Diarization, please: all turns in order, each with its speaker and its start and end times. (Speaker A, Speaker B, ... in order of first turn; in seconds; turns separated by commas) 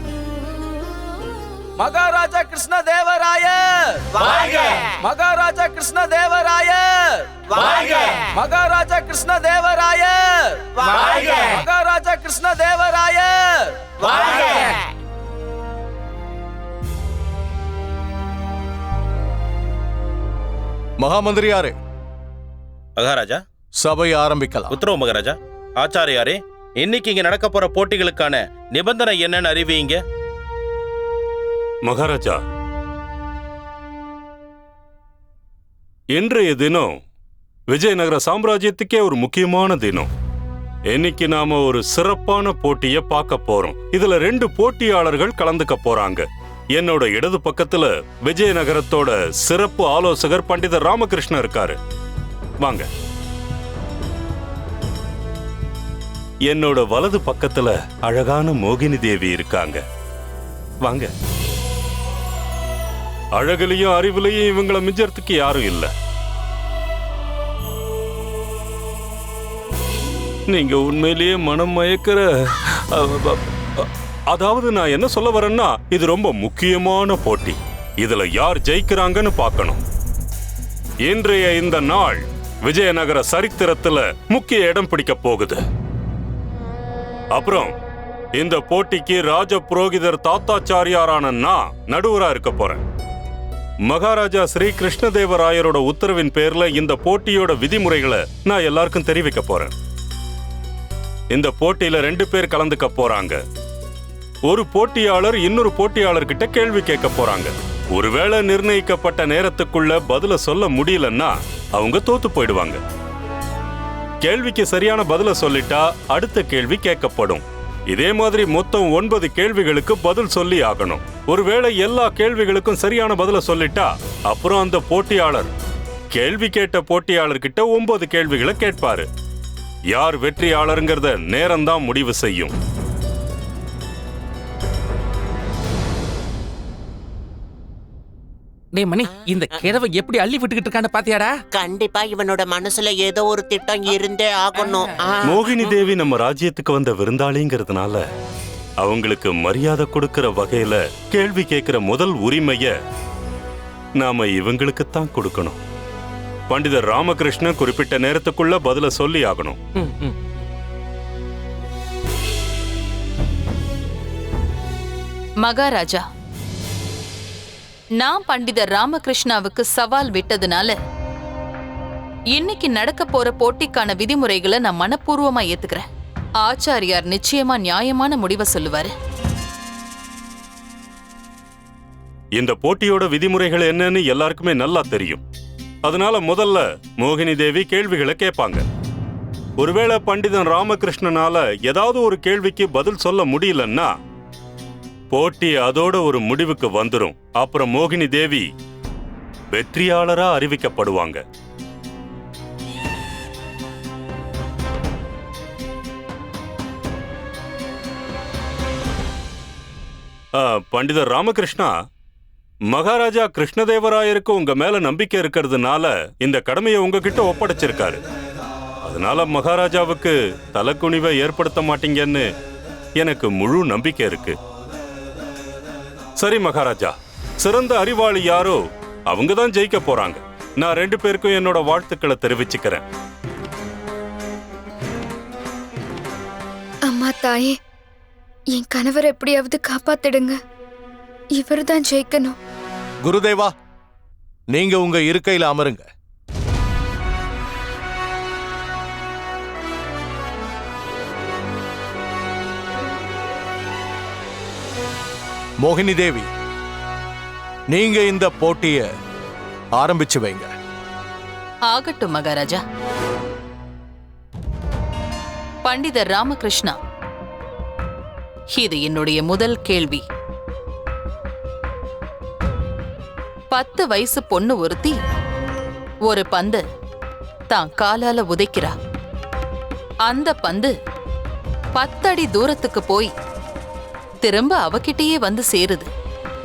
Speaker A: 1.8-3.7, Speaker A: 5.0-6.9, Speaker A: 7.5-13.5, Speaker A: 14.0-14.7, Speaker B: 21.0-21.7, Speaker C: 22.9-23.4, Speaker B: 23.8-24.7, Speaker C: 24.7-30.0, Speaker D: 31.8-32.4, Speaker D: 36.1-36.9, Speaker D: 37.7-40.1, Speaker D: 40.9-51.8, Speaker D: 52.6-52.9, Speaker D: 56.5-59.8, Speaker D: 60.8-61.1, Speaker D: 63.3-65.9, Speaker D: 70.5-79.8, Speaker D: 81.0-85.6, Speaker D: 87.3-87.7, Speaker D: 88.4-92.8, Speaker D: 93.8-99.7, Speaker D: 101.3-103.4, Speaker D: 104.5-112.8, Speaker D: 114.2-125.5, Speaker D: 126.1-129.1, Speaker D: 129.9-132.5, Speaker E: 138.7-141.3, Speaker F: 141.5-145.4, Speaker E: 144.5-144.8, Speaker D: 145.2-148.0, Speaker D: 148.8-152.7, Speaker D: 154.0-155.6, Speaker D: 156.5-159.6, Speaker E: 159.9-160.1, Speaker G: 165.4-166.0, Speaker G: 168.0-170.7, Speaker G: 172.3-175.8, Speaker G: 176.4-178.9, Speaker D: 182.3-185.2, Speaker D: 185.8-188.6, Speaker D: 189.6-193.9, Speaker D: 195.1-198.5, Speaker D: 199.5-201.2, Speaker D: 210.4-211.7, Speaker D: 212.7-218.0, Speaker D: 218.8-222.2, Speaker D: 223.0-224.3, Speaker D: 226.2-228.6, Speaker D: 229.1-232.8, Speaker H: 236.9-237.5, Speaker H: 238.5-240.3, Speaker H: 241.3-242.3, Speaker B: 243.0-243.5, Speaker B: 244.5-245.8, Speaker B: 255.6-256.3, Speaker B: 257.7-258.9, Speaker B: 259.8-260.5, Speaker G: 261.7-262.6, Speaker G: 265.6-266.7, Speaker G: 268.6-270.0, Speaker G: 273.5-275.0, Speaker G: 276.1-276.6, Speaker G: 277.5-278.7, Speaker G: 280.1-280.7, Speaker G: 281.8-283.1, Speaker G: 284.2-285.9